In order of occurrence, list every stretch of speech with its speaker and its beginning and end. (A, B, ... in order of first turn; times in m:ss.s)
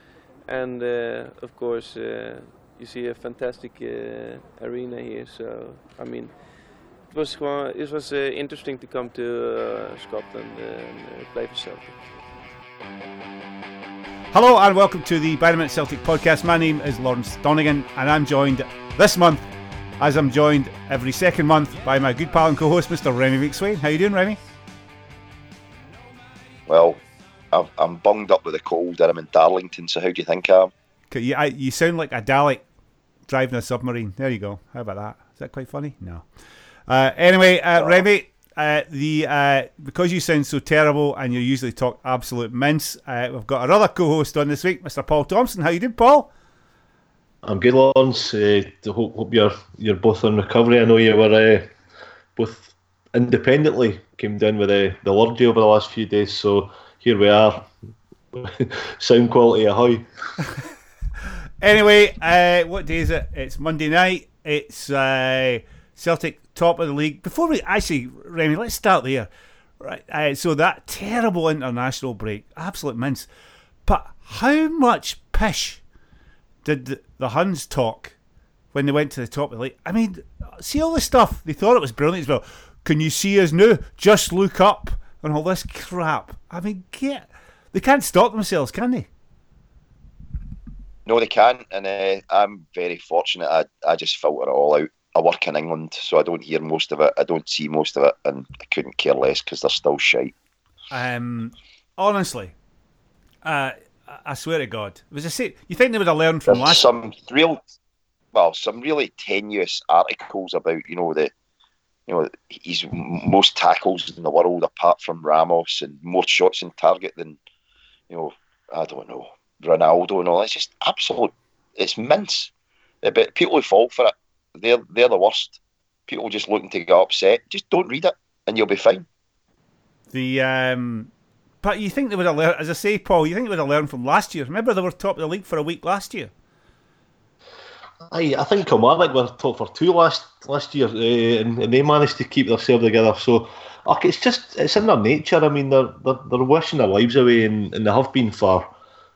0:00.4-0:06.3 A
0:07.1-0:12.0 A
0:14.3-0:19.4 B
0:20.0-0:24.4 B
0:26.7-0:27.0 C
0:27.5-0:30.7 C
0:31.1-0:32.6 B
0:33.3-0:36.2 B
0:36.9-0:46.3 B
0:37.8-0:38.0 C
0:47.4-0:51.7 D
0:52.4-0:57.7 D
0:58.3-1:00.0 D
1:01.6-1:13.3 B
1:13.9-1:15.8 B
1:16.6-1:18.1 B
1:18.7-1:29.1 B
1:31.1-1:40.3 C
1:40.9-1:42.5 B
1:43.4-1:46.9 B
1:46.5-1:47.6 C
1:48.3-1:51.3 C
1:52.1-1:57.4 C
1:58.1-2:02.5 C
2:03.0-2:09.0 C
2:10.1-2:11.1 B
2:11.6-2:16.3 B
2:18.1-2:28.7 D